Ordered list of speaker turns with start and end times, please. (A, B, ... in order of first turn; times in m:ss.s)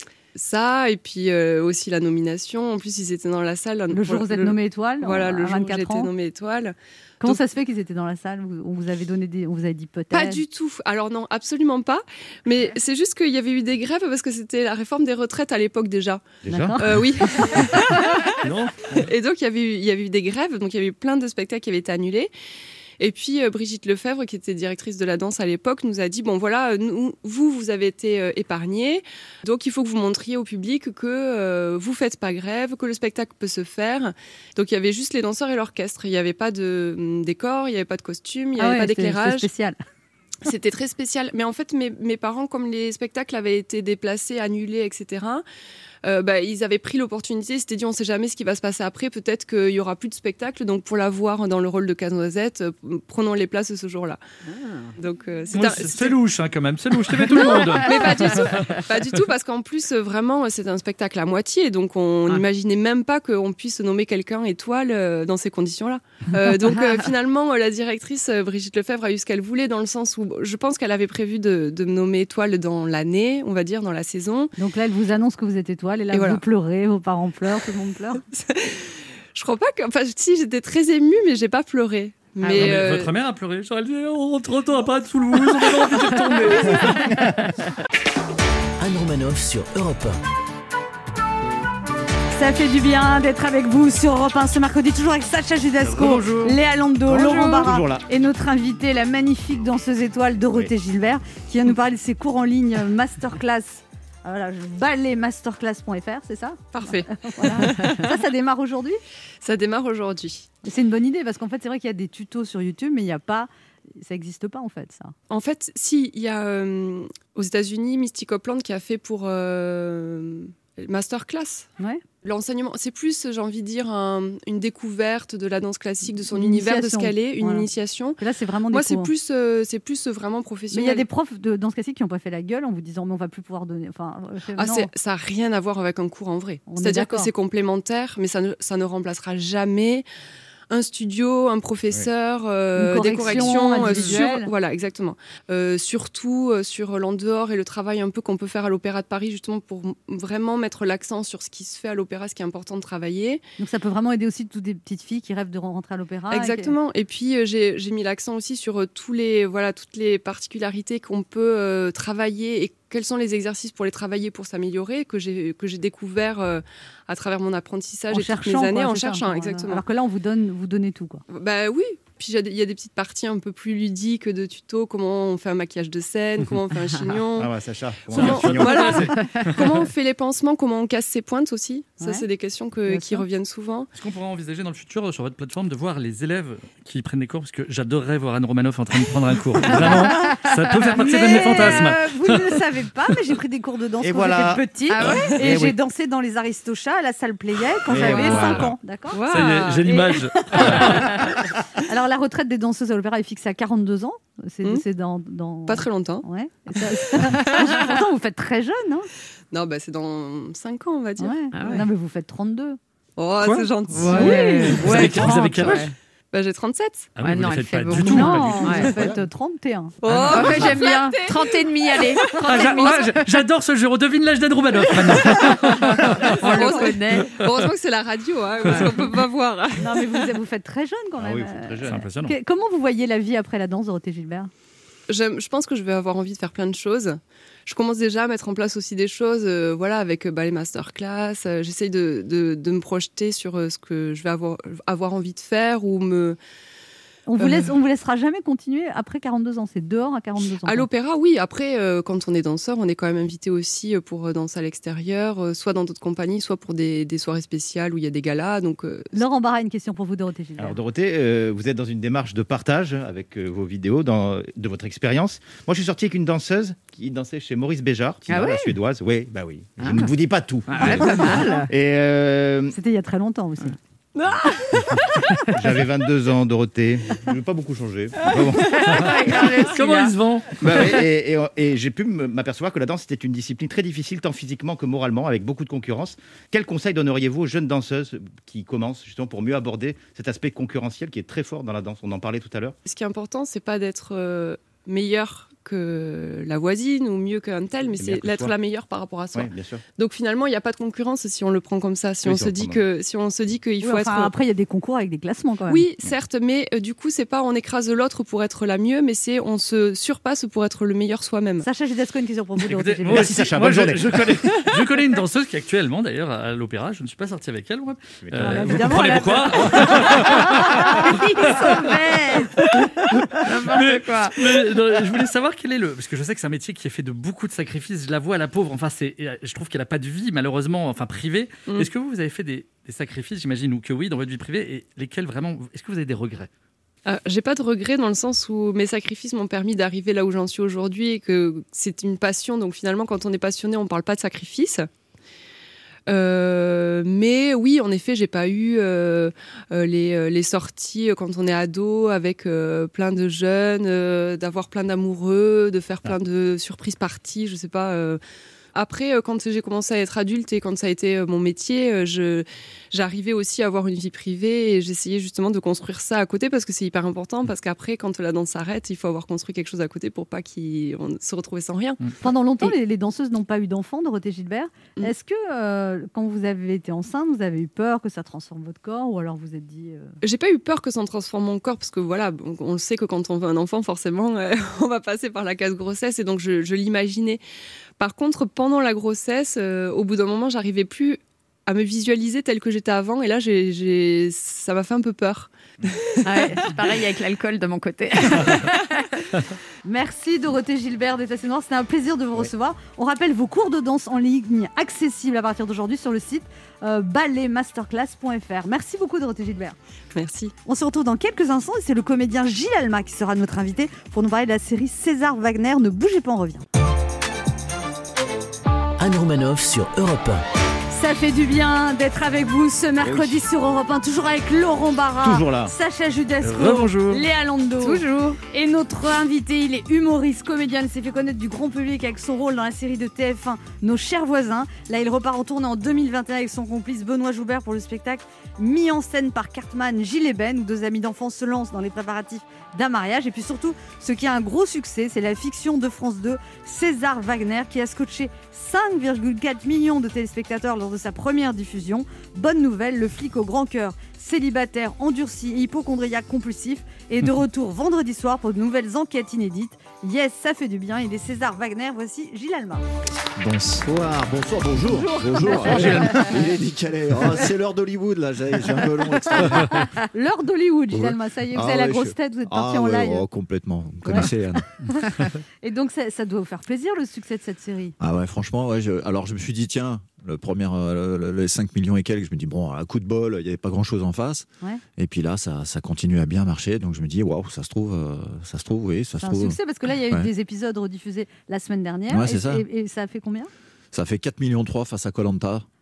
0:00.3-0:07.4 A
0:03.9-0:06.1 B
0:07.2-0:10.4 B
0:10.1-0:16.2 A
0:16.4-0:16.9 C
0:16.5-0:18.0 B
0:16.8-0:18.4 A
0:18.4-0:19.0 D
0:18.9-0:22.3 A
0:23.0-0:39.5 A
0:38.6-0:39.8 B
0:40.4-0:45.4 A
0:46.0-0:54.2 A
0:55.0-0:56.2 A
0:55.5-0:58.8 D
0:57.3-1:14.5 A
0:57.6-0:58.1 E
1:14.6-1:18.2 B
1:16.1-1:16.4 A
1:18.3-1:23.1 A
1:22.4-1:22.8 E
1:22.5-1:27.1 D
1:28.8-1:30.2 F
1:32.3-1:49.0 B
1:35.8-1:36.5 D
1:37.1-1:38.0 C
1:46.7-1:48.1 A
1:49.4-1:50.5 A
1:50.6-1:55.1 B
1:55.3-2:01.7 A
2:02.2-2:11.0 A
2:06.3-2:07.7 B
2:08.2-2:09.1 B
2:10.7-2:14.9 B
2:14.6-2:20.0 A
2:16.7-2:17.3 B
2:20.7-2:33.4 A
2:22.7-2:24.5 B
2:33.6-2:36.7 B
2:36.3-2:49.8 A
2:48.1-2:51.2 B
2:51.3-2:57.5 A
2:57.4-2:59.2 C
2:58.1-3:03.9 A
2:58.1-2:59.6 D
3:02.0-3:02.2 B
3:02.9-3:03.2 B
3:03.9-3:12.6 D
3:09.7-3:10.3 B
3:09.8-3:11.9 E
3:10.9-3:19.2 B
3:14.0-3:15.8 C
3:14.9-3:15.4 E
3:17.9-3:18.7 C
3:17.9-3:18.6 E
3:19.1-3:19.9 A
3:19.3-3:21.2 D
3:19.8-3:21.2 B
3:21.8-3:29.1 B
3:25.7-3:26.2 A
3:27.1-3:27.9 A
3:29.5-3:31.8 A
3:31.2-3:32.8 B
3:31.5-3:31.9 E
3:33.2-3:34.9 A
3:33.4-3:35.9 D
3:34.0-3:35.9 E
3:34.0-3:35.4 B
3:36.3-3:37.1 A
3:37.2-3:39.1 D
3:37.2-3:38.9 E
3:37.9-3:40.0 B
3:40.0-3:43.1 A
3:40.1-3:40.8 D
3:40.1-3:43.2 E
3:42.3-3:46.7 D
3:45.3-3:50.3 A
3:46.0-3:47.4 E
3:46.6-3:46.8 B
3:47.3-3:47.6 D
3:49.8-3:54.5 B
3:51.2-3:52.0 C
3:51.8-3:52.3 D
3:55.1-4:06.4 A
4:07.3-4:10.9 B
4:07.4-4:07.7 A
4:10.6-4:19.2 A
4:19.1-4:20.8 B
4:20.6-4:32.7 C
4:28.3-4:28.7 E
4:29.8-4:30.1 E
4:30.7-4:31.7 E
4:32.7-4:33.8 B
4:35.5-4:38.8 C
4:38.6-4:40.2 E
4:38.8-4:40.6 D
4:40.6-4:52.8 C
4:52.8-5:04.3 A
4:58.0-4:58.5 C
4:59.3-4:59.8 C
5:02.2-5:02.8 C
5:03.8-5:05.8 B
5:05.7-5:11.6 A
5:11.6-5:13.5 B
5:12.6-5:21.8 D
5:13.1-5:14.5 C
5:18.2-5:19.2 C
5:18.4-5:22.7 B
5:20.8-5:22.6 E
5:22.6-5:36.5 D
5:23.4-5:24.4 E
5:37.0-5:44.9 A
5:46.1-5:58.2 A
5:58.7-6:12.0 A
6:12.2-6:20.1 B
6:20.2-6:27.4 A
6:28.0-6:36.8 A
6:36.2-6:39.0 E
6:39.8-6:49.8 B
6:50.1-6:50.5 A
6:50.6-6:56.6 B
6:59.0-7:00.4 F
7:00.9-7:42.8 B
7:03.0-7:03.4 C
7:05.2-7:05.7 C
7:06.4-7:07.2 D
7:07.8-7:08.4 E
7:43.4-7:49.9 G
7:44.9-7:46.3 B
7:45.7-7:46.1 C
7:49.4-7:53.2 B
7:50.9-7:54.7 G
7:54.0-7:54.3 B
7:54.8-7:58.0 B
7:58.0-8:10.3 G
8:09.2-8:13.5 B
8:12.1-8:12.6 G
8:13.9-8:15.6 G